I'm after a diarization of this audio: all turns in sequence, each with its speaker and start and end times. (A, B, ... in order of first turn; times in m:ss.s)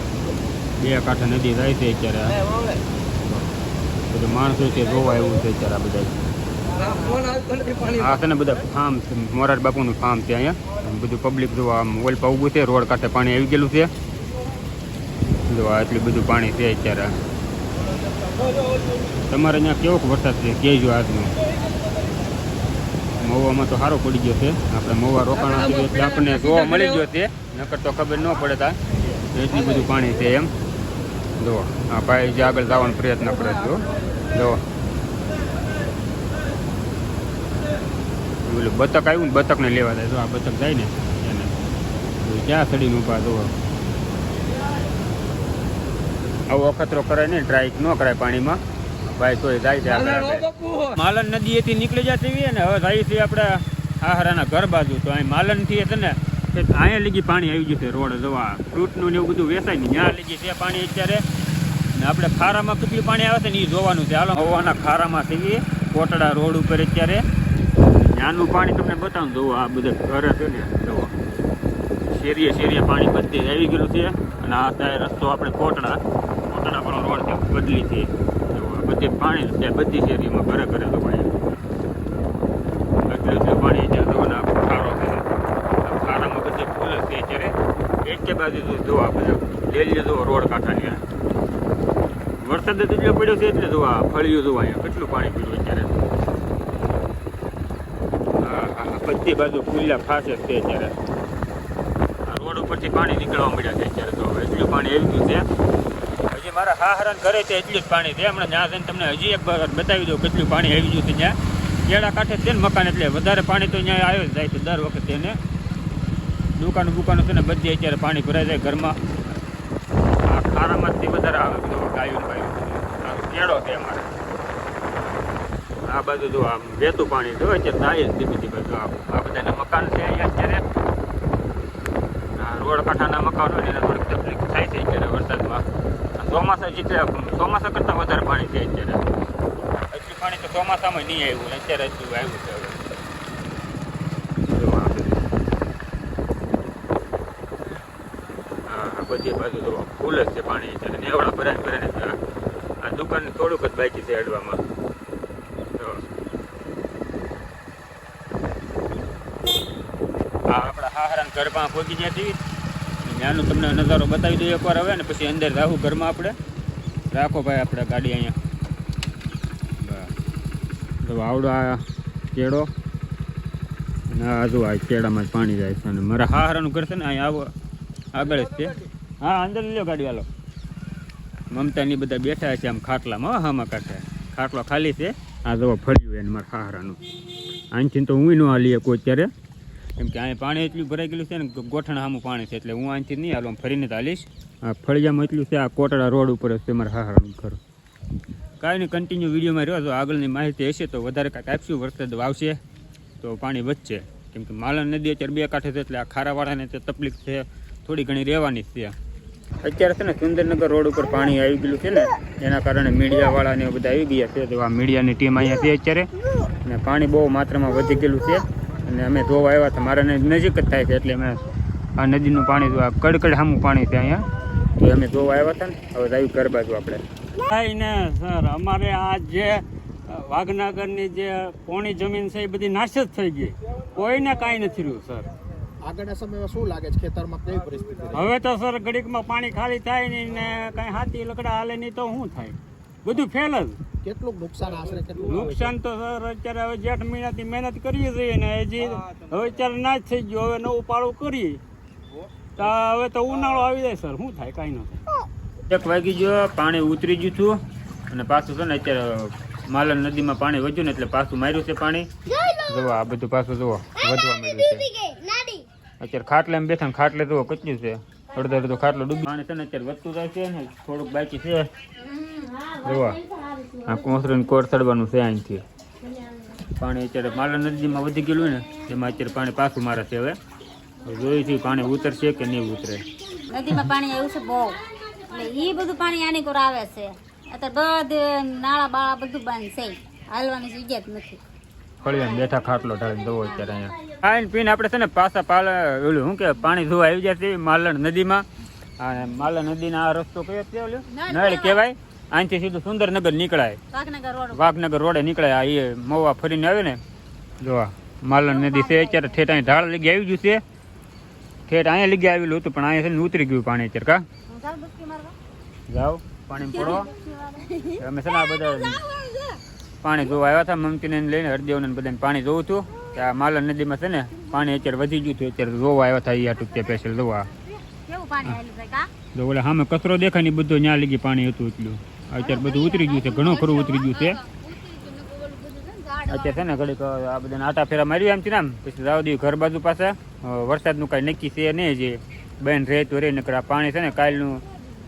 0:00.8-0:02.4 A
0:03.2-0:03.5 A
0:04.1-0:06.2 A
0:07.8-0:13.9 A
0:15.5-0:17.2 A
0:19.3-0:21.4 A
0:23.2-0:30.5 A
0:31.4-0:34.6 A
0:38.4-0:41.7 A
0:42.2-0:43.5 A
0:46.5-1:01.2 A
1:01.9-1:07.2 A
1:07.9-1:11.1 A
1:12.1-1:21.4 A
1:23.1-1:25.3 A
1:25.8-1:31.0 A
1:32.4-1:36.0 A
1:38.4-1:40.9 A
1:42.3-1:45.4 A
1:46.3-1:55.4 A
1:56.6-1:59.0 A
2:00.2-2:04.1 A
2:05.9-2:10.6 A
2:12.4-2:15.7 A
2:16.2-2:19.1 A
2:19.9-2:22.9 A
2:24.5-2:25.3 A
2:28.7-2:32.2 A
2:32.8-2:34.6 A
2:35.8-2:36.0 A
2:40.5-2:42.4 A
2:43.0-2:46.3 A
2:47.1-2:48.4 A
2:49.8-2:50.1 A
2:51.0-2:52.7 A
2:54.1-2:57.5 A
2:58.1-3:00.3 A
3:01.5-3:07.0 A
3:07.7-3:09.3 A
3:10.0-3:17.6 A
3:18.6-3:22.6 A
3:23.2-3:29.0 A
3:29.6-3:36.1 A
3:36.6-3:41.4 A
3:42.0-3:47.0 A
3:47.4-3:55.3 B
3:55.8-3:58.2 C
3:58.1-4:03.8 B
4:04.0-4:05.3 C
4:05.1-4:11.6 B
4:12.6-4:15.0 B
4:15.7-4:17.6 A
4:18.1-4:25.0 A
4:25.3-4:25.6 D
4:26.0-4:31.7 A
4:32.0-4:32.6 D
4:32.8-4:33.2 A
4:33.8-4:35.6 A
4:36.8-4:40.4 A
4:41.0-4:43.1 A
4:43.5-4:51.4 D
4:52.0-4:58.4 A
4:59.0-5:03.8 A
5:01.1-5:01.8 D
5:03.9-5:04.6 D
5:04.5-5:07.0 A
5:07.6-5:10.6 A
5:08.4-5:09.4 D
5:11.7-5:14.2 A
5:14.5-5:15.4 D
5:15.9-5:17.1 A
5:16.7-5:18.0 D
5:18.0-5:19.0 A
5:18.6-5:19.6 D
5:20.0-5:27.5 A
5:27.8-5:29.1 D
5:29.3-5:34.4 A
5:32.4-5:36.6 D
5:36.3-5:44.6 A